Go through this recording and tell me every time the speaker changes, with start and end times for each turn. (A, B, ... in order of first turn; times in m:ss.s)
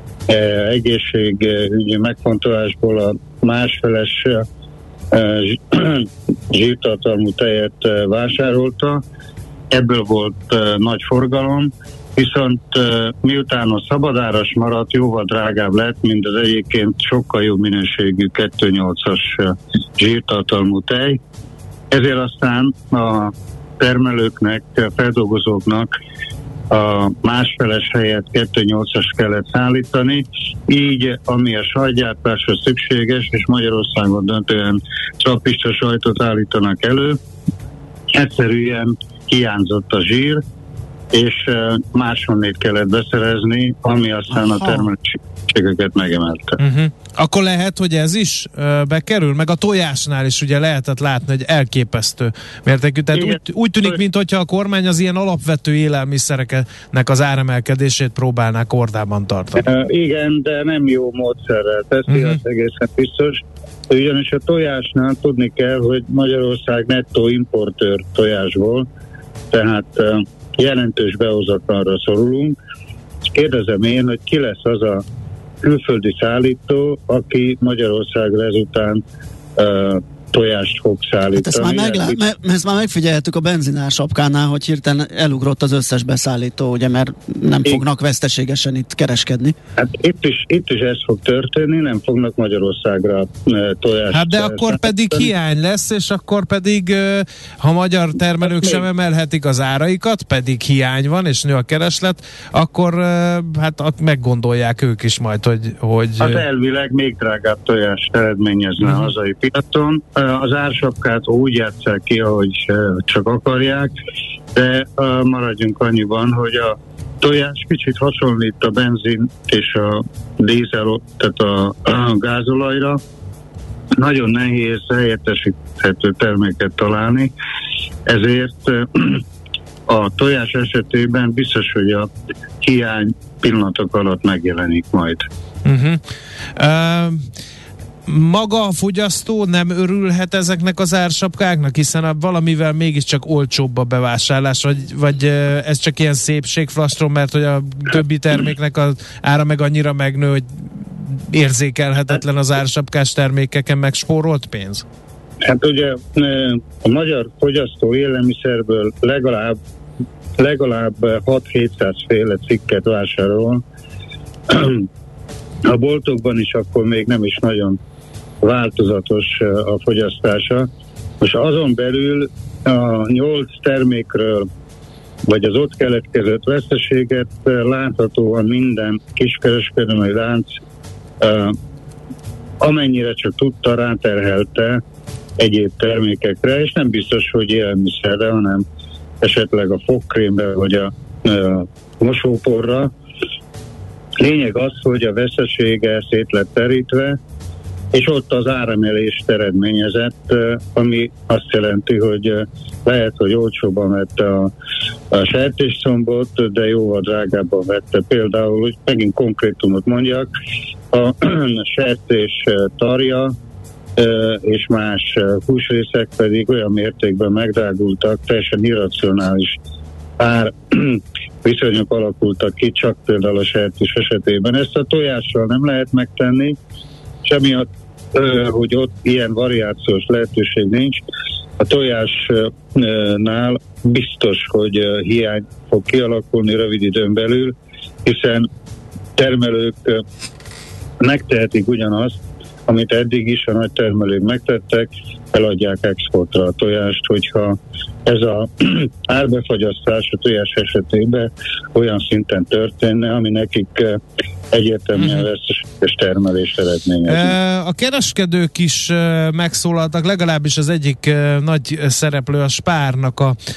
0:00.3-0:04.4 A
0:05.1-0:09.0 A
0:09.7-0:21.2 A
0:21.9-0:25.9 A
0:26.7-0:37.2 A
0:38.1-0:40.4 A
0:41.1-0:46.6 A
0:44.3-0:44.9 B
0:46.6-0:59.6 C
0:53.1-0:54.0 A
0:59.6-1:08.9 A
1:02.1-1:02.4 C
1:09.5-1:12.5 A
1:13.3-1:15.0 A
1:15.6-1:19.0 A
1:19.6-1:22.2 A
1:21.3-1:29.5 B
1:29.8-1:35.3 A
1:34.1-1:46.4 C
1:46.2-1:53.9 A
1:48.8-1:49.1 C
1:54.5-2:03.0 A
2:04.0-2:07.3 A
2:08.0-2:09.2 A
2:09.9-2:12.1 A
2:12.6-2:15.2 A
2:15.6-2:16.0 C
2:16.6-2:17.2 C
2:18.1-2:34.8 C
2:35.4-2:39.6 A
2:40.4-2:43.6 A
2:44.5-2:44.9 A
2:45.6-2:47.8 A
2:48.4-2:50.7 A
2:51.2-2:54.5 A
2:55.2-3:00.5 A
3:01.2-3:01.5 A
3:02.6-3:04.8 A
3:05.4-3:08.6 A
3:09.2-3:12.9 A
3:14.2-3:17.2 A
3:17.9-3:24.5 A
3:25.1-3:30.3 A
3:30.9-3:33.3 A
3:34.0-3:39.6 A
3:40.2-3:46.6 A
3:47.2-3:51.0 A
3:51.6-3:58.5 A
3:59.2-4:00.0 A
4:01.0-4:17.3 A
4:15.0-4:15.2 C
4:17.1-4:23.4 C